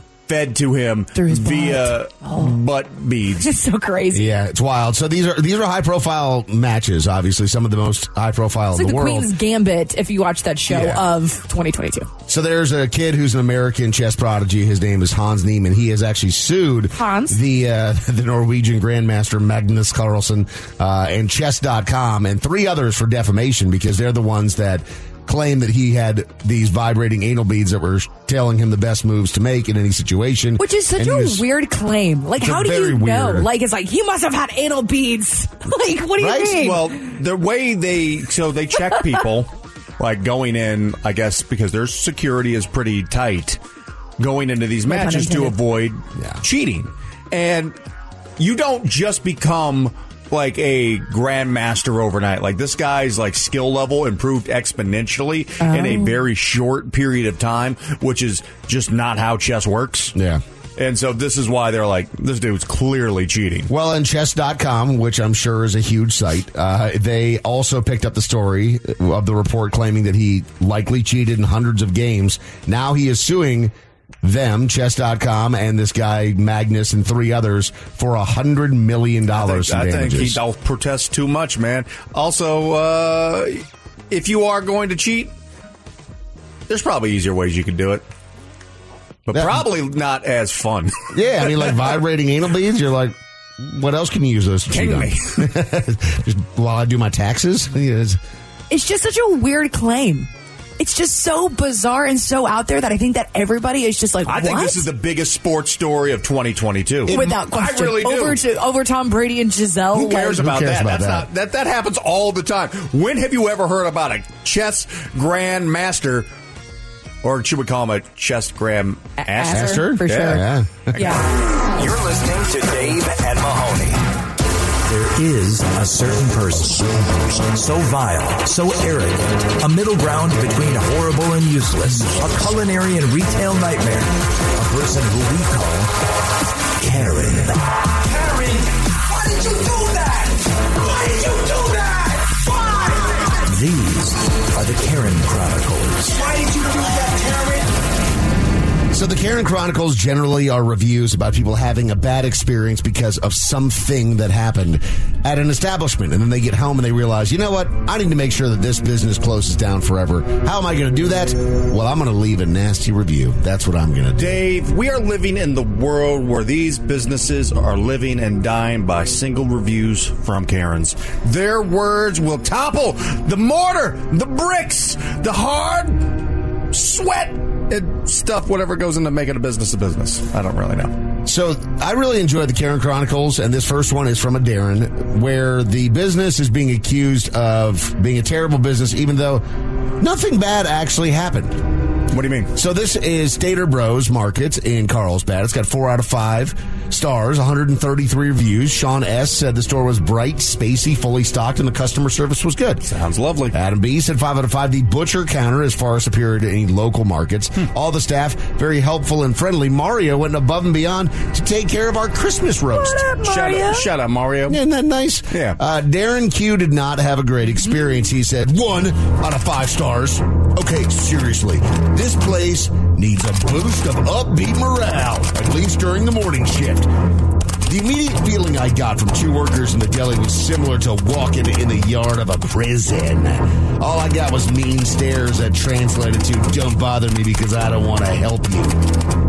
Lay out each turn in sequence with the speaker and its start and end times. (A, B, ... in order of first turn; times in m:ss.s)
0:00.3-0:03.5 A
0:01.1-0:02.5 B
0:03.4-0:04.2 B
0:04.1-0:09.3 C
0:08.7-0:12.1 B
0:10.7-0:11.0 C
0:12.3-0:31.4 C
0:16.9-0:17.4 B
0:30.6-0:36.9 B
0:32.4-0:33.5 C
0:36.2-0:36.6 C
0:36.5-0:43.6 A
0:44.2-0:47.7 A
0:44.9-0:45.5 B
0:46.2-0:46.4 C
0:48.4-1:00.1 A
0:55.6-0:56.2 B
1:00.1-1:00.4 C
1:00.8-1:03.7 A
1:03.7-1:20.4 C
1:19.3-1:25.3 A
1:26.7-1:28.0 A
1:29.3-1:31.6 A
1:29.3-1:29.6 C
1:31.1-1:38.2 C
1:34.7-1:35.3 A
1:38.7-1:44.8 B
1:44.3-1:48.4 A
1:47.1-1:50.4 B
1:49.9-1:56.3 A
1:50.3-1:51.3 C
1:57.2-2:01.2 A
1:59.2-2:00.4 B
1:59.5-2:01.1 C
2:01.0-2:01.2 B
2:01.7-2:04.0 D
2:04.9-2:15.9 E
2:16.8-2:17.6 E
2:18.1-2:23.0 F
2:23.4-2:26.2 E
2:26.2-2:27.6 F
2:28.9-2:44.4 C
2:44.2-3:01.0 A
3:01.2-3:09.4 C
3:10.0-3:11.6 C
3:12.1-3:12.5 A
3:12.5-3:22.8 C
3:22.8-3:23.5 A
3:23.5-3:33.0 C
3:32.7-3:33.9 B
3:33.2-3:34.6 A
3:34.5-3:46.9 C
3:35.3-3:35.6 A
3:47.6-3:58.8 C